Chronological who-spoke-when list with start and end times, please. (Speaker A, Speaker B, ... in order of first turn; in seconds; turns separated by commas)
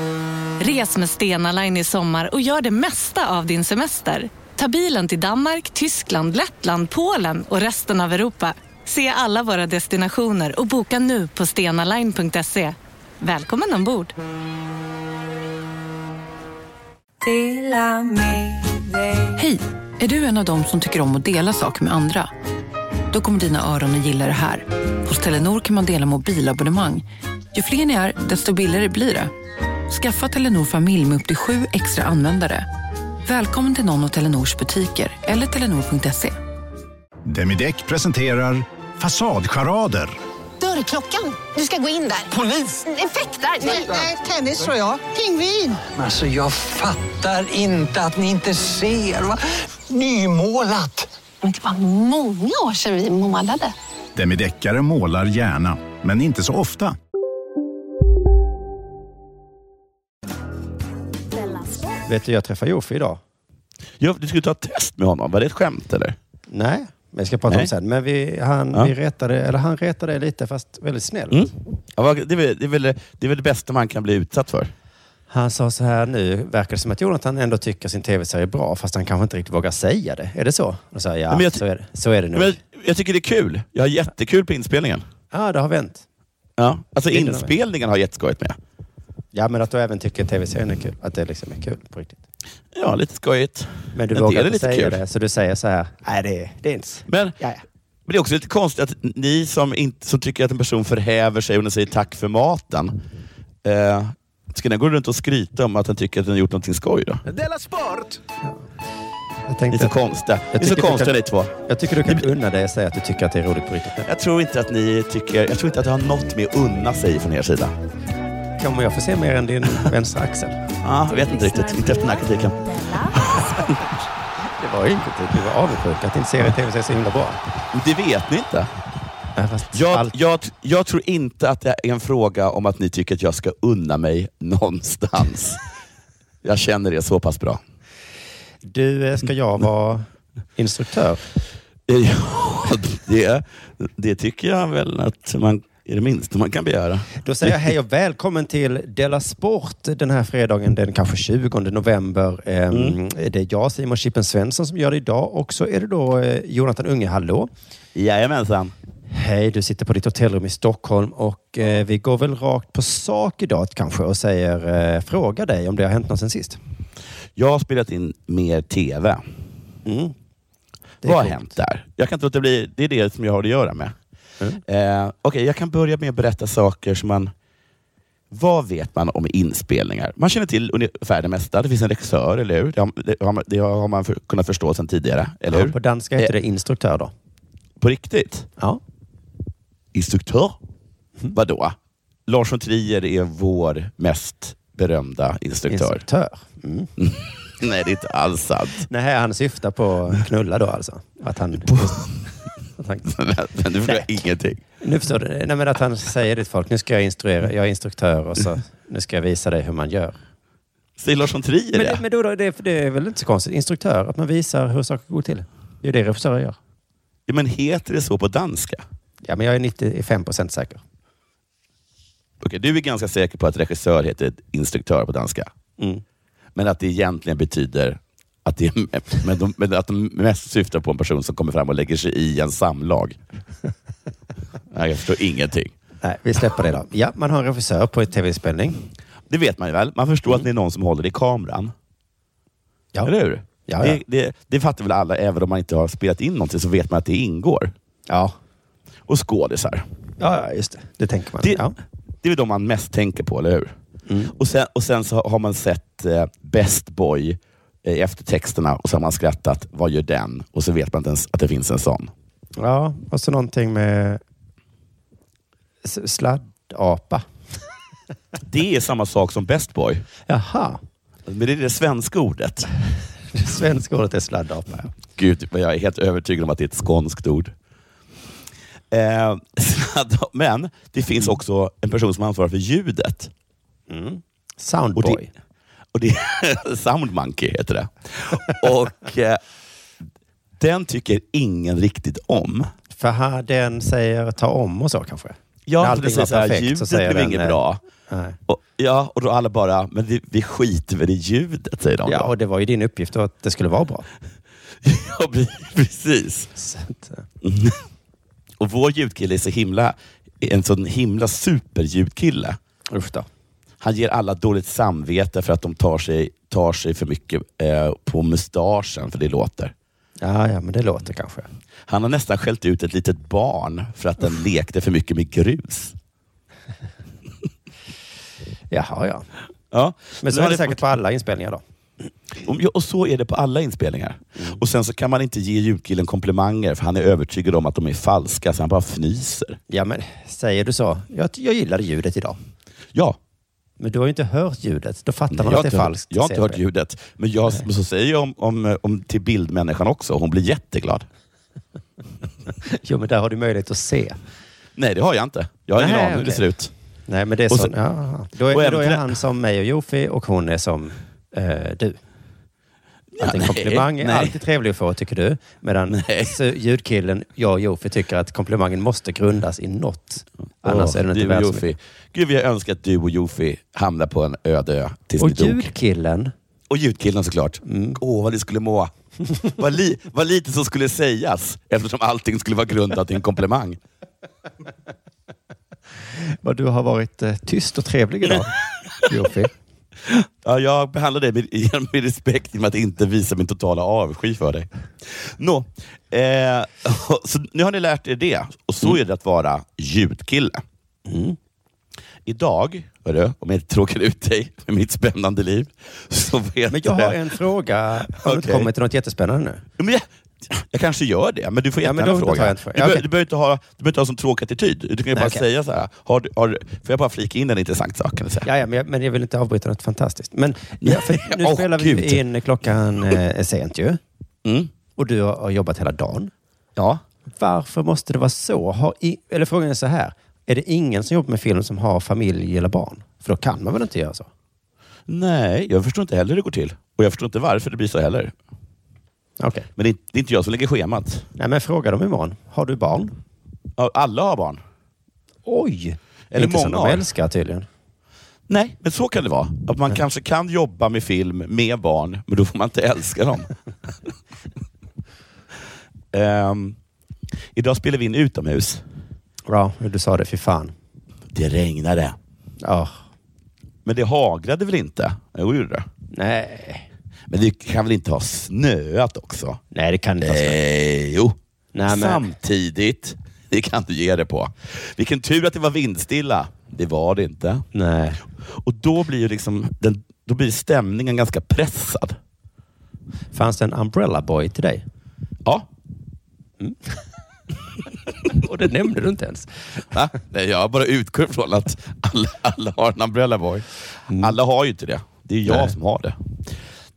Speaker A: 0.6-14.1, Speaker B: 17.3-18.2, Speaker C: 19.4-22.3, Speaker C: 23.1-29.3, Speaker C: 29.9-32.7, Speaker C: 33.3-36.4, Speaker D: 37.3-40.2, Speaker B: 40.6-42.3, Speaker E: 40.7-41.2, Speaker B: 42.9-44.0, Speaker E: 43.6-45.8, Speaker F: 45.9-51.1, Speaker B: 51.4-53.7, Speaker D: 54.1-56.9, Speaker G: 62.0-63.2, Speaker H: 64.0-66.2, Speaker G: 66.5-71.5, Speaker H: 71.3-74.7, Speaker G: 75.3-82.6, Speaker H: 81.3-81.6, Speaker H: 82.3-85.0, Speaker G: 85.3-86.1, Speaker H: 86.6-88.6, Speaker G: 87.1-87.5, Speaker G: 89.3-92.2, Speaker H: 92.7-95.0, Speaker G: 93.9-97.6, Speaker H: 97.1-97.3, Speaker H: 98.1-103.0, Speaker H: 103.6-107.2, Speaker D: 107.3-108.2, Speaker G: 109.5-110.0, Speaker H: 109.7-111.5, Speaker G: 110.5-114.1, Speaker H: 114.0-117.7, Speaker G: 118.6-120.6, Speaker H: 120.8-123.8, Speaker G: 124.5-127.4, Speaker H: 127.7-128.7, Speaker G: 129.4-130.1, Speaker H: 129.7-135.6, Speaker H: 136.4-137.6, Speaker G: 138.6-140.1, Speaker G: 140.6-141.2, Speaker H: 141.9-147.7, Speaker G: 147.2-157.5, Speaker H: 152.7-153.0, Speaker H: 157.9-158.7, Speaker G: 159.1-166.6, Speaker H: 167.4-169.2, Speaker G: 169.9-170.2, Speaker G: 171.0-171.5, Speaker H: 171.0-174.0, Speaker H: 174.7-177.3, Speaker H: 178.3-186.3, Speaker G: 185.5-187.1, Speaker H: 187.8-188.5, Speaker H: 189.9-190.6, Speaker H: 191.3-191.8, Speaker H: 192.3-196.0, Speaker G: 195.7-196.9, Speaker H: 197.0-198.9, Speaker G: 198.9-201.9, Speaker H: 201.7-202.2, Speaker G: 202.8-203.1, Speaker H: 203.1-204.6, Speaker G: 204.8-210.2, Speaker H: 211.0-212.0, Speaker G: 211.7-216.6, Speaker H: 217.3-218.8, Speaker G: 219.2-220.8, Speaker H: 222.4-225.5, Speaker H: 226.6-233.2, Speaker H: 234.7-235.7, Speaker G: 236.0-238.8, Speaker H: 239.3-241.7, Speaker H: 243.0-247.7, Speaker G: 243.7-244.0, Speaker G: 248.1-248.4, Speaker H: 249.1-249.9, Speaker G: 250.2-251.8, Speaker H: 251.4-251.7, Speaker H: 252.2-253.8, Speaker G: 254.1-254.3, Speaker H: 254.4-262.1, Speaker G: 262.6-264.2, Speaker G: 265.8-267.3, Speaker H: 268.4-270.0, Speaker G: 270.3-270.8, Speaker H: 271.3-272.7, Speaker G: 273.3-274.9, Speaker H: 275.1-277.5, Speaker H: 278.9-283.3, Speaker G: 283.9-285.3, Speaker H: 285.0-285.2, Speaker H: 285.9-289.4, Speaker H: 290.6-292.7, Speaker G: 292.9-298.4, Speaker H: 295.7-297.8, Speaker H: 298.5-302.3, Speaker G: 302.1-304.1, Speaker H: 304.8-306.5, Speaker G: 306.6-307.3, Speaker H: 307.4-307.8, Speaker H: 308.6-312.6, Speaker G: 312.9-313.3, Speaker H: 313.8-319.7, Speaker G: 320.2-321.5, Speaker H: 321.9-326.0, Speaker G: 328.7-329.3, Speaker H: 329.7-330.8, Speaker G: 330.2-331.6, Speaker H: 332.4-339.6, Speaker G: 334.4-334.6, Speaker G: 339.7-342.4, Speaker G: 343.8-346.6, Speaker H: 345.3-351.1, Speaker G: 352.6-354.2, Speaker H: 354.8-356.7, Speaker G: 355.8-356.4, Speaker G: 357.1-362.0, Speaker H: 358.5-359.1, Speaker H: 363.1-364.4, Speaker G: 363.2-371.7, Speaker H: 365.9-366.3, Speaker H: 370.6-375.7, Speaker G: 375.2-376.3, Speaker H: 376.7-378.9, Speaker G: 377.6-378.0, Speaker H: 379.4-383.8, Speaker G: 386.1-388.6, Speaker G: 389.1-389.5, Speaker H: 390.1-400.6, Speaker G: 401.1-401.4, Speaker H: 402.3-407.2, Speaker G: 406.7-409.6, Speaker H: 408.2-408.7, Speaker H: 409.8-418.5, Speaker G: 411.8-413.0, Speaker G: 415.1-415.4, Speaker G: 418.4-424.0, Speaker H: 420.8-422.2, Speaker H: 424.4-424.7, Speaker G: 425.0-426.3, Speaker H: 426.8-427.0, Speaker G: 427.3-434.3, Speaker H: 435.1-438.3, Speaker G: 439.4-439.7, Speaker H: 439.8-441.3, Speaker G: 441.4-443.2, Speaker H: 443.8-444.6, Speaker G: 445.5-447.7, Speaker H: 446.3-447.0, Speaker H: 448.5-453.5, Speaker H: 456.1-456.8, Speaker H: 457.6-458.8, Speaker G: 459.5-460.7, Speaker H: 461.3-462.2, Speaker G: 462.6-463.0, Speaker H: 463.9-465.9, Speaker G: 466.1-466.9, Speaker H: 467.3-469.6, Speaker G: 469.7-470.6, Speaker H: 470.2-471.4, Speaker G: 471.7-472.2, Speaker H: 471.9-477.6, Speaker G: 477.7-478.2, Speaker H: 478.4-482.2, Speaker G: 483.3-484.9, Speaker G: 486.6-487.0, Speaker G: 488.3-489.8, Speaker H: 489.9-496.2, Speaker G: 494.1-494.4